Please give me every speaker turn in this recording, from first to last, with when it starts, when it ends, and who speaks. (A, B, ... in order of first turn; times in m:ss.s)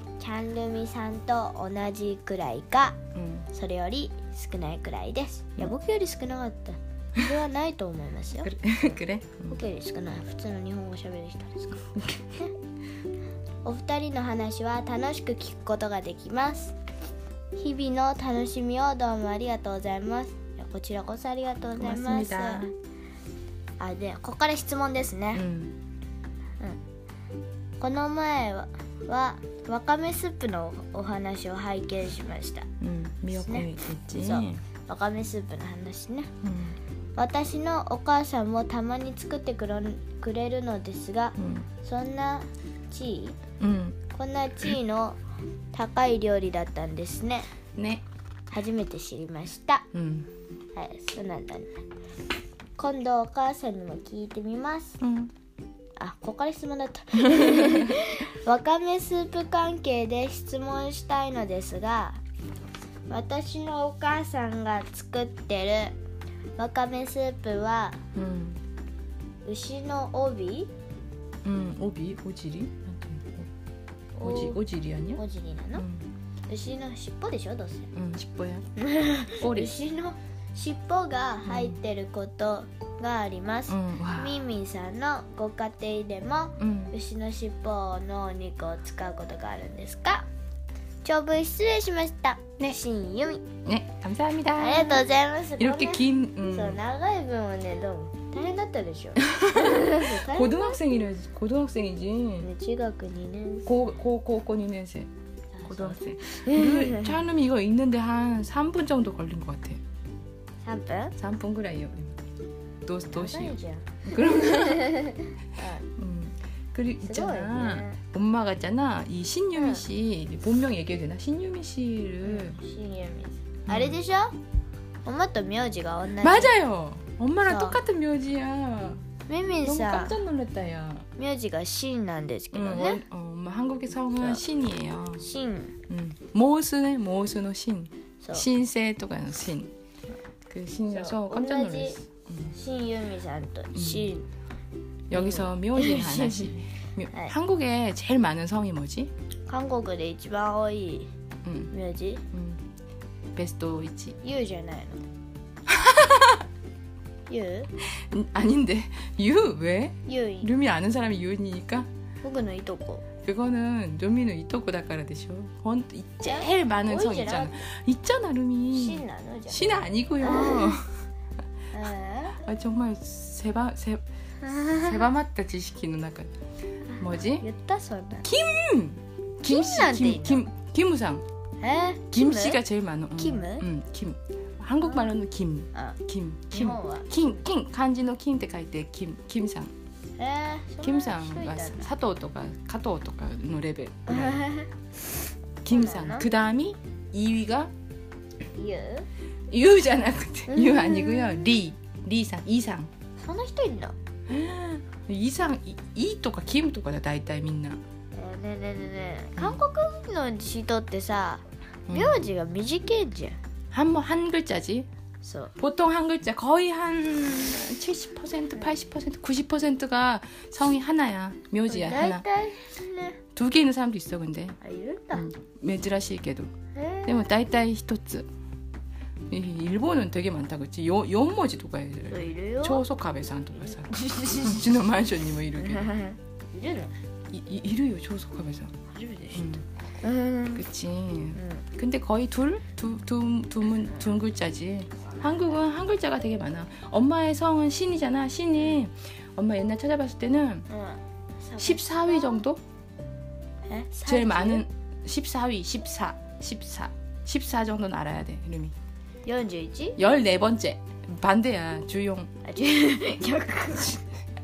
0:00.2-0:03.0 A
0:03.2-0:03.5 B
0:03.5-0:08.5 A
0:08.4-0:09.6 B
0:09.5-0:12.5 A
0:12.0-0:12.3 B
0:13.6-0:16.8 A
0:17.6-0:22.7 A
0:21.8-0:22.7 B
0:23.8-0:25.4 A
0:25.3-0:25.8 B
0:27.8-0:32.7 A
0:32.8-0:34.6 B
0:33.3-0:36.3 A
0:36.4-0:36.8 B
0:37.2-0:43.4 A
0:41.4-0:41.7 B
0:43.6-0:44.0 B
0:44.1-0:45.2 A
0:45.7-0:47.5 A
0:47.8-0:48.0 B
0:48.5-0:49.9 A
0:49.9-0:50.3 B
0:50.8-0:51.8 A
0:52.8-0:55.0 A
0:55.0-0:55.3 B
0:56.0-1:02.2 A
0:57.3-0:58.0 B
1:03.1-1:06.0 A
1:06.6-1:08.0 A
1:08.1-1:08.6 B
1:09.4-1:10.7 A
1:11.4-1:13.5 B
1:14.2-1:14.6 A
1:14.2-1:15.2 B
1:15.2-1:15.8 A
1:15.8-1:16.1 B
1:16.5-1:17.9 A
1:17.9-1:18.6 B
1:18.8-1:30.3 A
1:19.4-1:19.7 B
1:21.4-1:21.8 B
1:23.7-1:24.4 B
1:26.6-1:26.9 B
1:31.0-1:33.5 A
1:33.6-1:35.0 B
1:34.5-1:40.8 A
1:35.6-1:36.8 B
1:39.3-1:42.5 B
1:42.4-1:43.7 A
1:43.7-1:45.1 B
1:45.5-1:47.2 A
1:45.6-1:49.8 B
1:50.6-1:51.2 A
1:51.2-1:52.2 B
1:52.9-1:55.0 B
1:53.1-1:55.9 A
1:56.0-2:02.6 B
1:57.0-1:58.0 A
1:59.6-1:59.8 A
2:02.2-2:04.4 A
2:03.7-2:04.0 B
2:05.0-2:06.5 A
2:06.2-2:09.0 B
2:07.4-2:07.8 A
2:09.3-2:10.2 A
2:09.6-2:11.1 B
2:11.2-2:13.0 A
2:12.5-2:15.2 B
2:14.2-2:14.4 A
2:15.2-2:15.8 A
2:15.9-2:19.7 B
2:20.5-2:22.5 B
2:20.9-2:22.0 A
2:22.5-2:24.3 A
2:23.8-2:24.1 B
2:25.1-2:29.1 B
2:25.1-2:26.5 A
2:29.5-2:31.1 A
2:31.4-2:31.7 B
2:31.7-2:32.2 A
2:32.3-2:32.6 B
2:33.4-2:34.2 B
2:34.2-2:35.0 A
2:35.7-2:36.4 B
2:37.3-2:37.7 A
2:38.0-2:41.9 B
2:40.1-2:40.5 A
2:42.2-2:43.0 A
2:43.2-2:50.9 B
2:46.2-2:47.6 A
2:48.7-2:49.7 A
2:50.2-2:50.8 A
2:51.7-2:52.4 A
2:52.4-2:54.0 B
2:54.4-2:55.1 A
2:54.8-2:56.3 B
2:56.9-2:58.3 A
2:57.0-2:57.5 B
2:58.2-3:01.2 B
2:59.4-3:00.4 A
3:01.6-3:02.6 A
3:02.1-3:09.7 B
3:03.2-3:03.6 A
3:04.8-3:05.1 A
3:06.5-3:07.4 A
3:10.2-3:11.9 A
3:10.8-3:14.5 B
3:14.1-3:14.7 A
3:15.6-3:17.7 B
3:15.7-3:16.3 A
3:18.5-3:19.1 A
3:19.5-3:22.9 B
3:20.5-3:21.5 A
3:23.2-3:23.9 A
3:24.3-3:27.8 B
3:28.1-3:33.4 A
3:31.9-3:32.3 B
3:33.7-3:34.9 B
3:35.2-3:35.5 A
3:35.6-3:42.2 B
3:41.7-3:43.2 A
3:43.4-3:44.6 B
3:44.6-3:45.2 A
3:45.1-3:46.5 B
3:46.7-3:47.3 A
3:47.1-3:48.3 B
3:49.3-3:55.9 B
3:52.1-3:52.8 A
3:53.6-3:54.7 A
3:55.6-3:56.9 A
3:57.3-3:58.7 B
3:58.9-4:00.6 A
3:59.3-3:59.6 B
4:00.5-4:10.7 B
4:01.3-4:01.6 A
4:10.7-4:12.4 A
4:11.6-4:12.6 B
4:13.7-4:14.6 A
4:14.1-4:18.8 B
4:19.2-4:20.0 A
4:20.0-4:22.3 B
4:22.4-4:24.1 A